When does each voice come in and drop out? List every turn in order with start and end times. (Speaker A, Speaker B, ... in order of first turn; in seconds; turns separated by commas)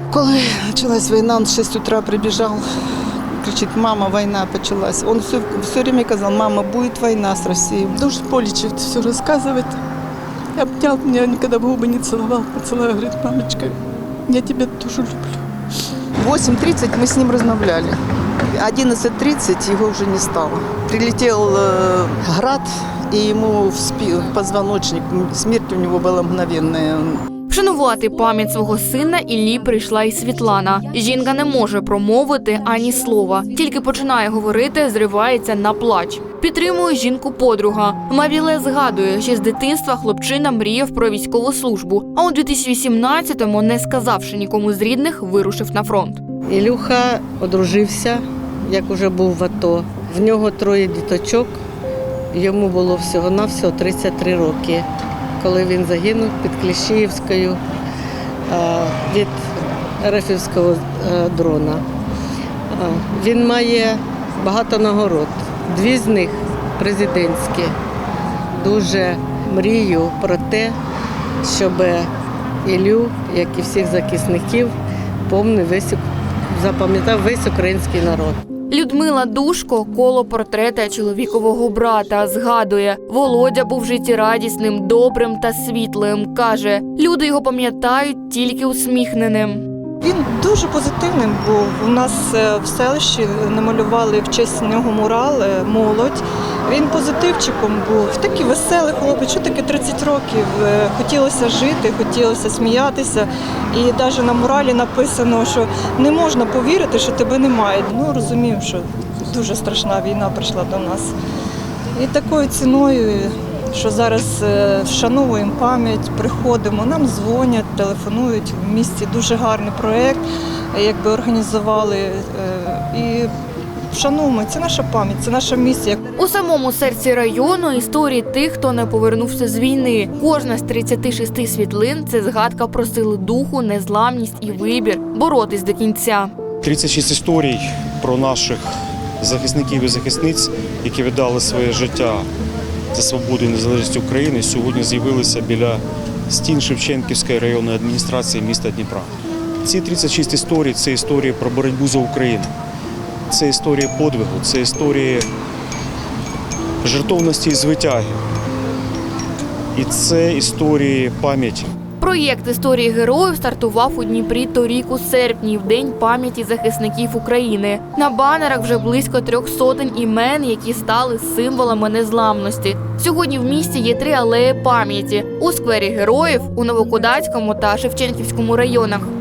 Speaker A: 0.1-2.6, Speaker A: 3.3-9.8, Speaker A: 10.6-15.4, Speaker A: 16.2-18.0, Speaker A: 18.5-27.2, Speaker B: 27.5-46.2, Speaker C: 46.5-51.5, Speaker C: 52.3-54.9, Speaker C: 55.4-57.6, Speaker C: 58.5-61.8, Speaker C: 62.7-67.8, Speaker C: 68.6-70.8, Speaker C: 71.4-72.1, Speaker C: 72.6-74.7, Speaker C: 75.2-78.5, Speaker B: 78.7-89.7, Speaker D: 90.0-96.1, Speaker D: 96.7-108.8, Speaker D: 109.3-111.1, Speaker D: 112.0-120.2, Speaker D: 120.7-123.2, Speaker D: 123.9-125.7, Speaker B: 126.2-136.3, Speaker E: 136.6-142.3, Speaker E: 142.9-149.1, Speaker E: 149.6-152.5, Speaker E: 153.3-155.3, Speaker E: 156.8-158.1, Speaker E: 159.8-161.7, Speaker B: 162.0-179.1